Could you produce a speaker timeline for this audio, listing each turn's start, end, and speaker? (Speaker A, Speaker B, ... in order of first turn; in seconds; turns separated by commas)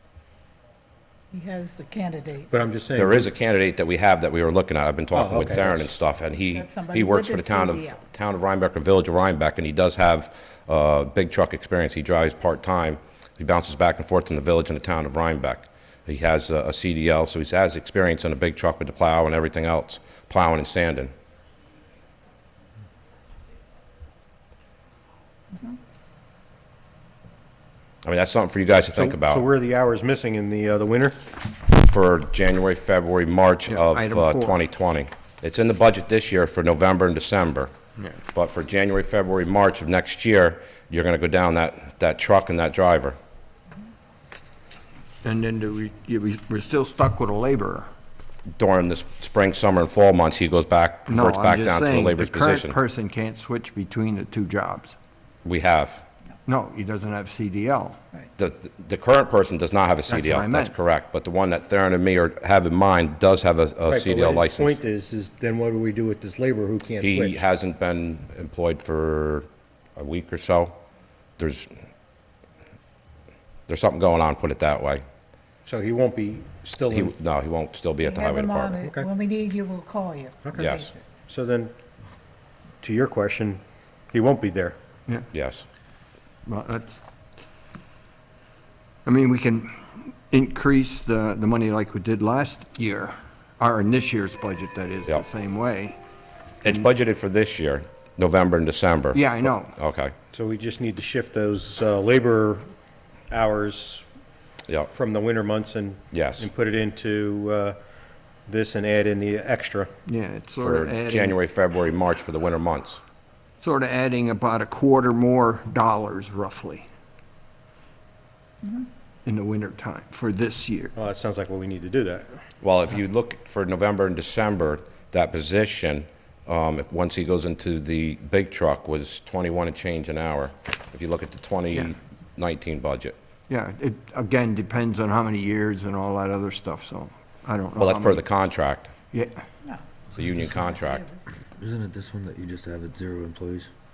Speaker A: 1.3-2.5, Speaker B: 2.5-3.3, Speaker C: 3.0-21.1, Speaker B: 5.1-5.9, Speaker A: 6.5-8.0, Speaker C: 28.0-29.4, Speaker B: 28.9-31.2, Speaker C: 31.8-37.7, Speaker D: 33.7-34.6, Speaker C: 38.3-43.2, Speaker D: 45.2-47.9, Speaker C: 48.6-52.8, Speaker D: 51.1-55.0, Speaker C: 55.5-56.0, Speaker D: 56.5-58.0, Speaker C: 58.4-64.8, Speaker D: 60.1-60.8, Speaker B: 63.9-67.4, Speaker C: 67.0-69.5, Speaker C: 70.0-70.8, Speaker C: 71.4-71.7, Speaker C: 73.7-75.0, Speaker B: 75.7-77.1, Speaker C: 76.9-78.8, Speaker A: 78.0-81.1, Speaker B: 78.8-79.1, Speaker B: 80.5-80.8, Speaker C: 80.6-80.9, Speaker B: 81.3-81.7, Speaker B: 82.8-83.6, Speaker B: 84.1-84.8, Speaker C: 85.3-85.7, Speaker D: 86.5-87.0, Speaker D: 89.0-96.0, Speaker C: 96.6-100.1, Speaker D: 99.1-99.8, Speaker B: 100.3-102.6, Speaker B: 103.3-104.1, Speaker B: 104.9-107.8, Speaker C: 106.1-106.5, Speaker B: 108.5-109.9, Speaker D: 110.1-111.4, Speaker C: 110.6-113.0, Speaker D: 113.6-116.9, Speaker D: 119.2-120.9, Speaker B: 121.0-122.3, Speaker C: 122.6-133.2, Speaker D: 133.5-138.2, Speaker C: 137.8-138.9, Speaker D: 139.1-139.5, Speaker C: 140.2-141.1, Speaker E: 141.6-143.7